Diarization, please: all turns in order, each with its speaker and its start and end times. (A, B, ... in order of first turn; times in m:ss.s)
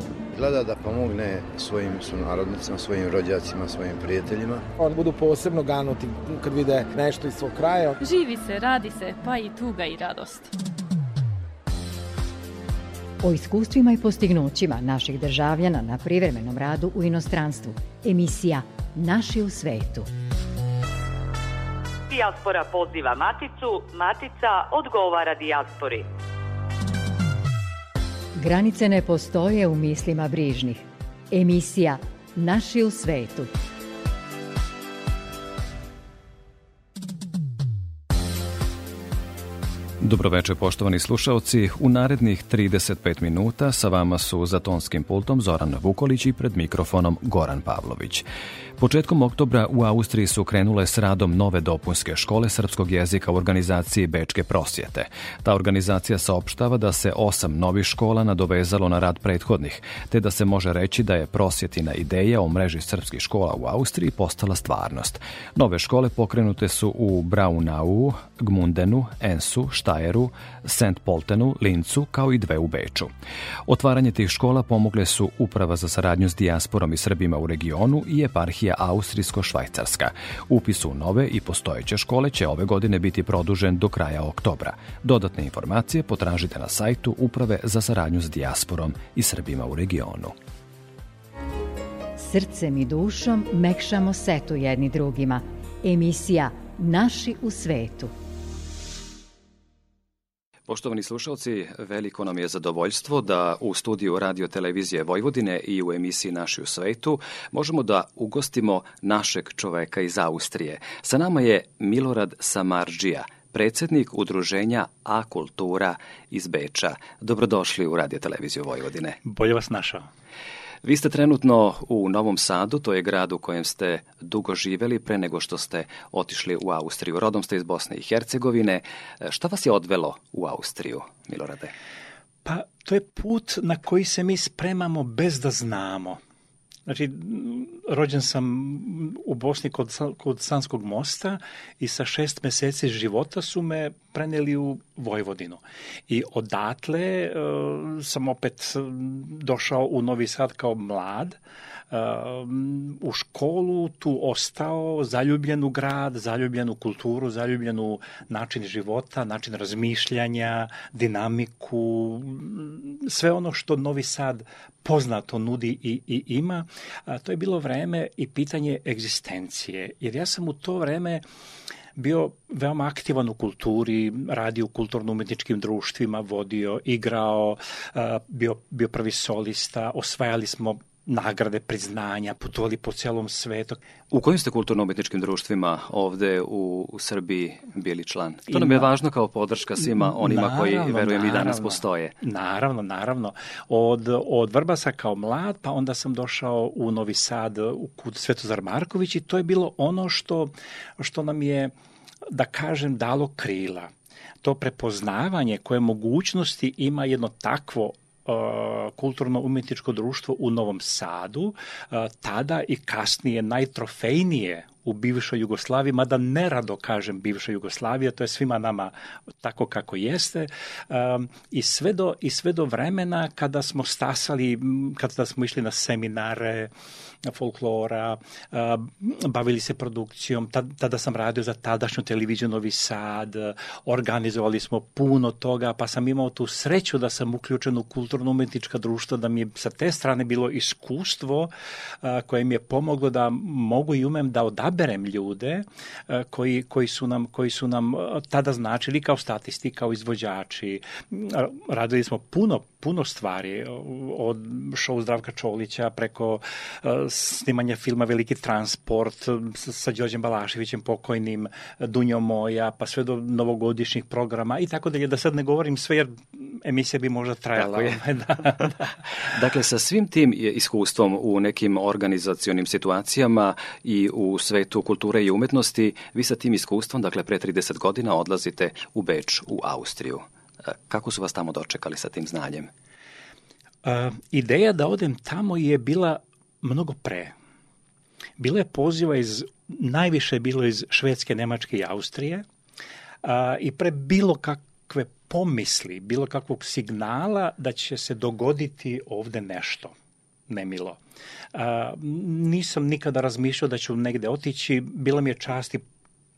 0:00.3-0:04.6 A
0:04.8-0:08.0 B
0:08.0-0:10.5 C
0:13.2-0:20.1 D
0:22.1-0:26.1 E
0:28.4-0:33.5 D
0:40.0-0:48.2 F
0:48.8-1:13.1 F
1:13.7-1:30.3 F
1:32.2-1:38.1 D
1:40.7-1:59.2 F
1:59.2-2:00.1 G
2:00.8-2:11.7 F
2:12.4-2:16.2 G
2:16.8-2:31.4 G
2:31.9-2:51.2 G
2:52.0-3:03.8 G
3:04.1-3:12.1 F
3:08.5-3:08.9 G
3:09.8-3:21.7 G
3:22.3-3:23.9 G
3:24.4-3:46.7 G
3:47.2-4:28.8 G
4:27.6-4:28.0 F
4:29.2-4:42.7 F
4:43.8-4:47.3 G
4:48.4-4:52.4 G
4:53.2-4:59.9 G
5:00.5-5:01.0 G
5:01.5-5:05.8 G